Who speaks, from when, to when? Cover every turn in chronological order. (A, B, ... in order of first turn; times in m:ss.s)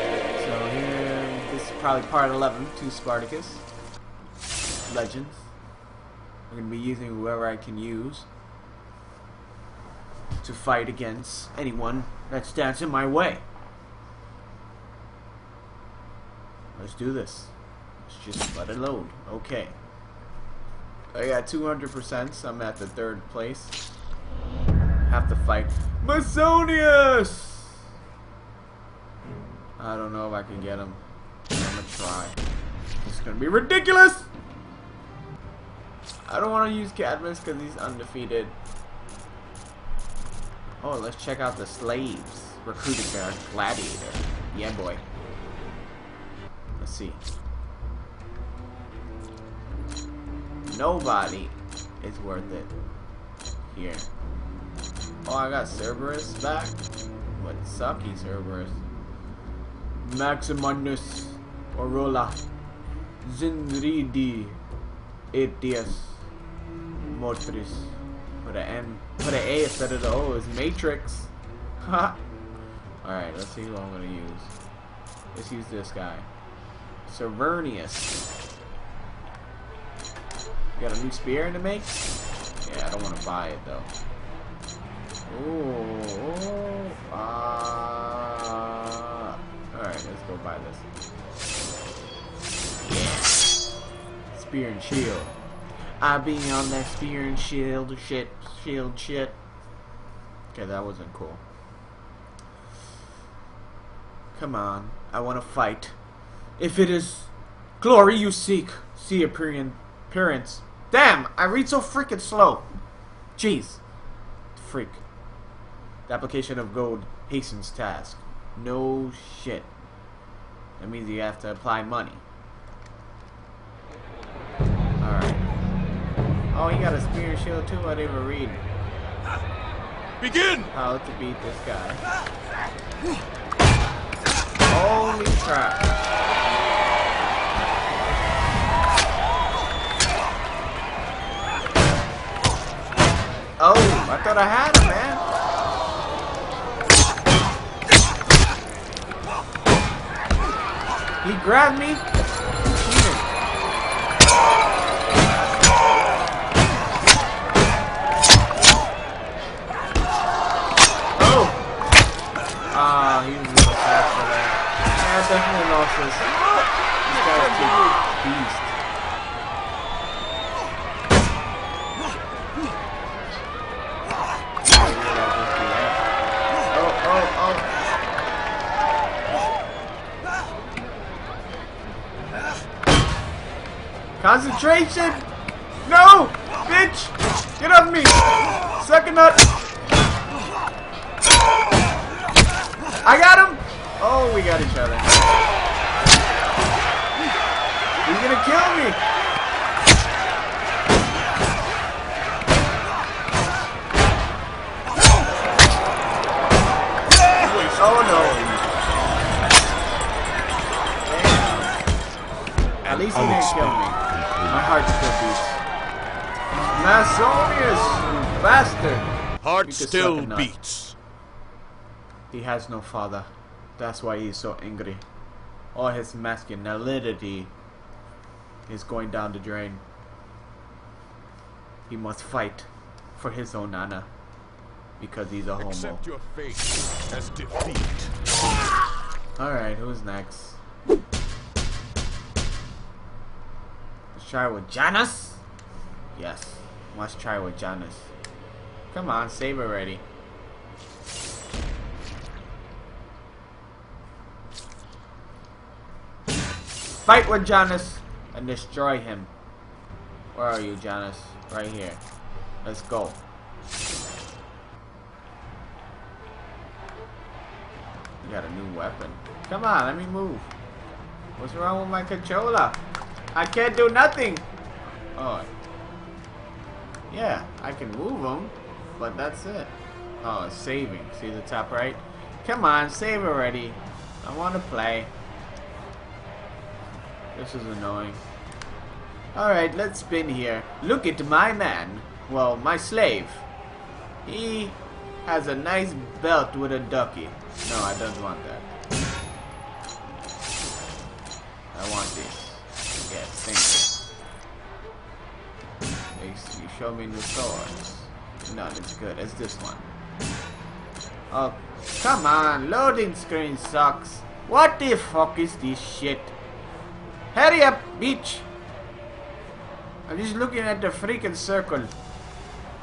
0:00.3-0:03.6 A
0:04.9-0:05.5 A
0:06.5-0:08.3 A
0:10.4-0:13.4 A
0:16.7-0:17.5 A
0:18.0-0:19.8 A
0:21.1-0:23.8 A
0:25.0-0:27.8 A
0:29.8-0:32.4 A
0:33.0-0:34.3 A
0:36.2-0:38.6 A
0:40.8-0:45.0 A
0:46.8-0:47.2 A
0:50.6-0:52.7 A
0:53.7-0:54.1 A
0:55.2-0:56.8 A
0:57.4-0:58.8 A
1:00.0-1:02.4 A
1:03.2-1:04.6 A
1:05.3-1:06.3 A
1:07.0-1:12.2 A
1:13.0-1:14.5 A
1:15.3-1:16.3 A
1:17.0-1:18.3 A
1:20.8-1:22.1 A
1:22.6-1:23.9 A
1:25.3-1:30.8 A
1:32.8-1:33.5 A
1:34.3-1:35.4 A
1:36.0-1:39.4 A
1:40.5-1:41.4 A
1:44.3-1:46.0 A
1:46.6-1:52.7 A
1:53.4-1:53.8 A
1:54.5-1:55.0 A
1:56.1-1:59.7 A
2:00.8-2:02.2 A
2:05.0-2:05.4 A
2:06.5-2:08.6 A
2:10.2-2:10.7 B
2:10.7-2:12.0 A
2:14.7-2:15.9 A
2:23.6-2:25.2 A
2:31.2-2:32.0 A
2:32.6-2:33.3 A
2:41.2-2:41.6 A
2:42.7-2:46.4 A
2:47.0-2:48.8 A
2:47.1-2:48.0 B
2:54.7-2:56.0 A
2:56.7-2:57.7 A
3:04.2-3:05.3 A
3:05.8-3:09.5 A
3:13.0-3:15.2 A
3:18.0-3:19.0 A
3:27.4-3:28.7 B
3:27.8-3:28.4 A
3:31.0-3:31.9 A
3:32.8-3:35.6 A
3:32.9-3:33.5 B
3:36.7-3:39.1 A
3:39.4-3:41.0 B
3:39.6-3:40.5 A
3:42.3-3:45.0 A
3:45.7-3:47.5 A
3:48.7-3:49.8 A
3:51.9-3:54.1 A
3:55.0-3:56.0 A
3:55.6-3:58.1 B
3:59.4-4:00.6 A
4:04.1-4:05.4 A
4:06.1-4:08.1 A
4:08.9-4:10.0 A
4:17.0-4:19.3 A
4:20.3-4:22.0 A
4:22.6-4:23.2 A
4:28.2-4:30.5 A
4:31.4-4:32.8 A
4:33.3-4:34.5 A
4:35.1-4:35.5 A
4:37.1-4:45.1 A
4:47.3-4:48.2 A
4:49.3-4:53.4 A
4:54.2-4:58.7 A
5:01.7-5:03.9 A
5:06.2-5:09.9 A
5:11.3-5:16.3 A
5:17.3-5:18.5 A
5:20.1-5:21.9 A